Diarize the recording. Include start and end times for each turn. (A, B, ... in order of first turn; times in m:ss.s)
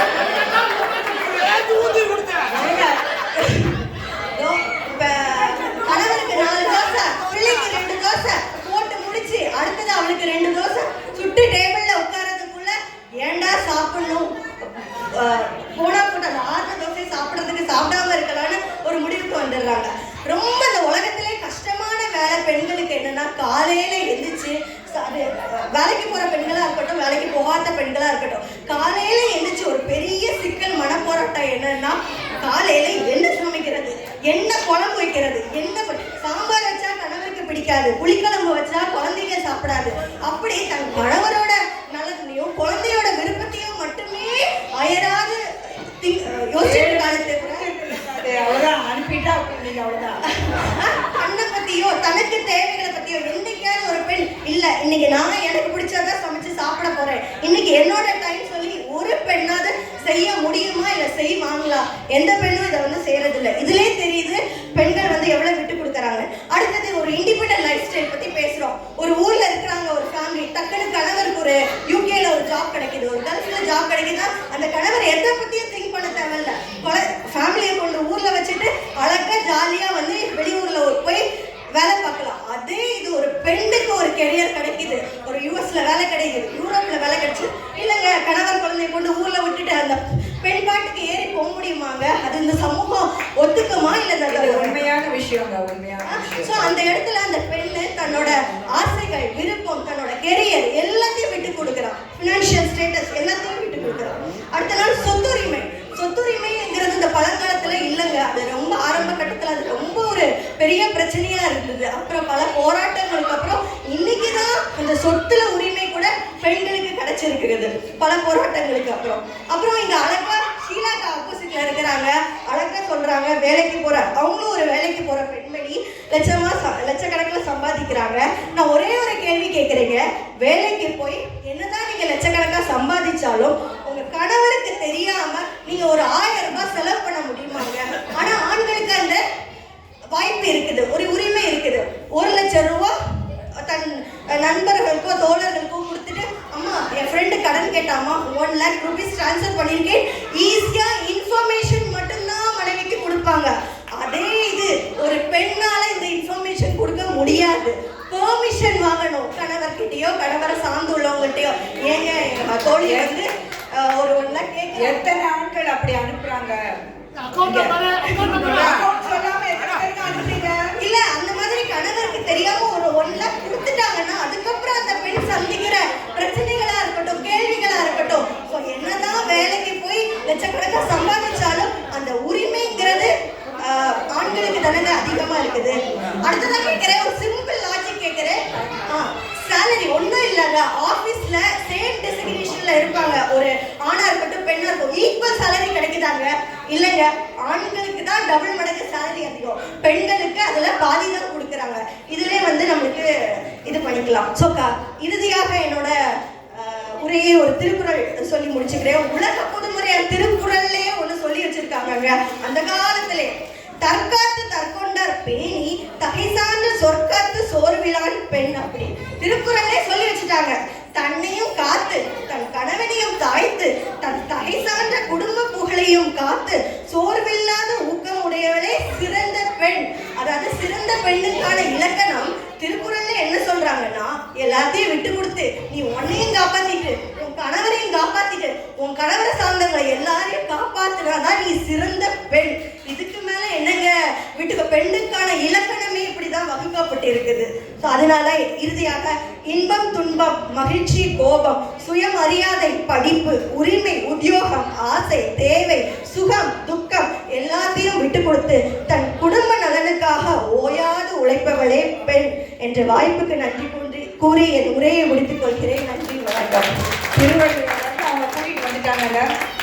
0:00.4-0:02.5 A
0:02.5-0:47.7 B
0:46.6-0:50.2 C
0:50.4-1:34.7 B
1:34.3-1:36.3 C
1:36.0-2:19.2 B
2:20.1-2:22.9 B
2:23.6-2:45.2 B
2:42.8-2:43.1 C
2:44.7-2:46.6 C
2:47.3-2:50.7 C
2:48.1-2:48.6 A
2:50.8-3:25.9 B
3:26.5-4:26.7 B
4:27.1-4:29.2 C